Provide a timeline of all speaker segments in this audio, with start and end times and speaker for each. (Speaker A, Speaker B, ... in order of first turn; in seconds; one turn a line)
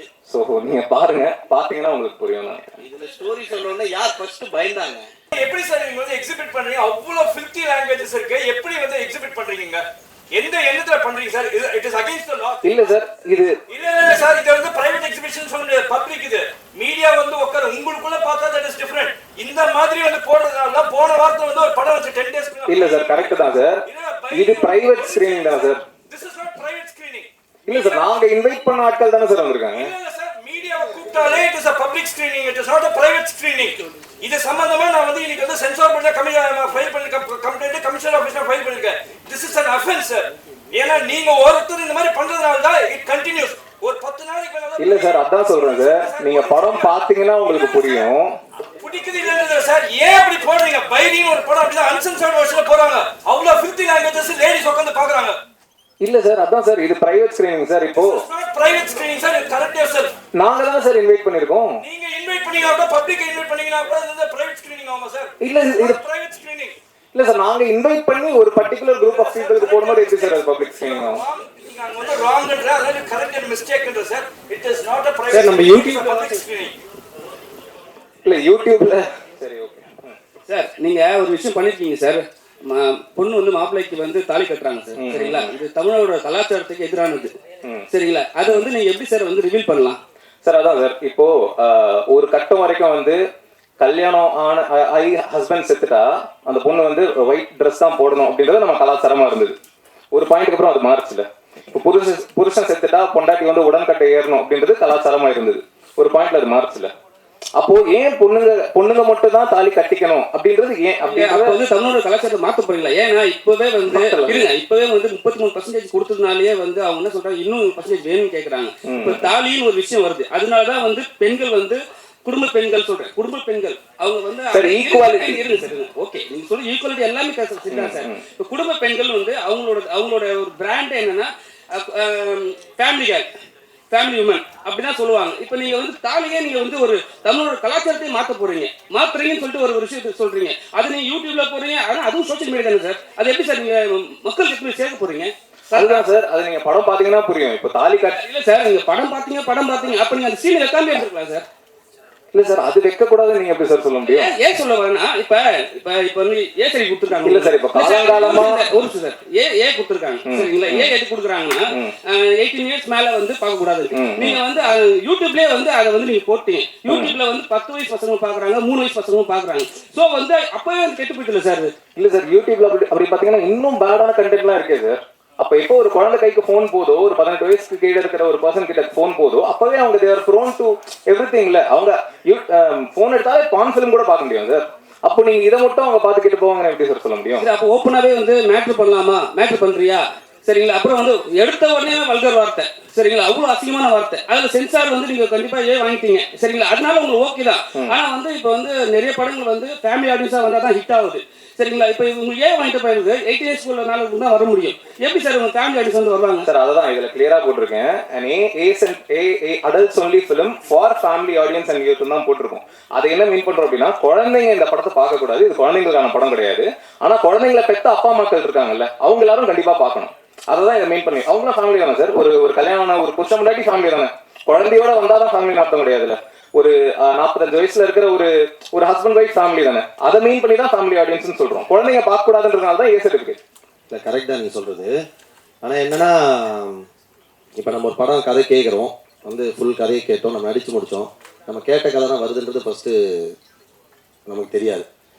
Speaker A: 0.3-2.8
Speaker B: 2.8-5.1
Speaker C: 5.3-9.8
Speaker C: 10.3-12.9
Speaker A: 12.6-13.5
Speaker C: 13.7-28.2
Speaker A: 22.7-25.8
Speaker A: 27.7-29.9
Speaker C: 29.7-48.1
Speaker A: 44.8-48.3
Speaker C: 48.8-55.4
Speaker A: 56.0-58.2
Speaker C: 58.0-60.1
Speaker A: 60.4-61.8
Speaker C: 61.8-66.8
Speaker A: 65.4-66.0
Speaker A: 67.1-71.2
Speaker C: 69.0-76.8
Speaker D: 75.3-76.2
Speaker A: 78.2-80.2
Speaker D: 80.5-87.3
Speaker A: 85.0-85.5
Speaker D: 87.9-90.0
Speaker A: 90.5-93.2
Speaker A: 93.8-99.6
Speaker A: 100.1-106.9
Speaker A: 107.6-111.6
Speaker D: 111.0-133.3
Speaker A: 113.9-114.5
Speaker A: 118.8-119.3
Speaker A: 124.5-125.5
Speaker A: 127.7-128.2
Speaker D: 133.9-146.1
Speaker A: 145.7-148.2
Speaker D: 148.1-151.5
Speaker A: 152.3-154.3
Speaker D: 154.0-171.7
Speaker A: 157.2-158.7
Speaker A: 160.2-160.9
Speaker A: 163.9-164.4
Speaker A: 166.9-167.2
Speaker A: 172.0-187.5
Speaker D: 187.4-206.5
Speaker A: 206.4-233.4
Speaker E: 233.9-235.0
Speaker E: 235.6-236.8
Speaker E: 237.6-243.3
Speaker E: 244.3-244.9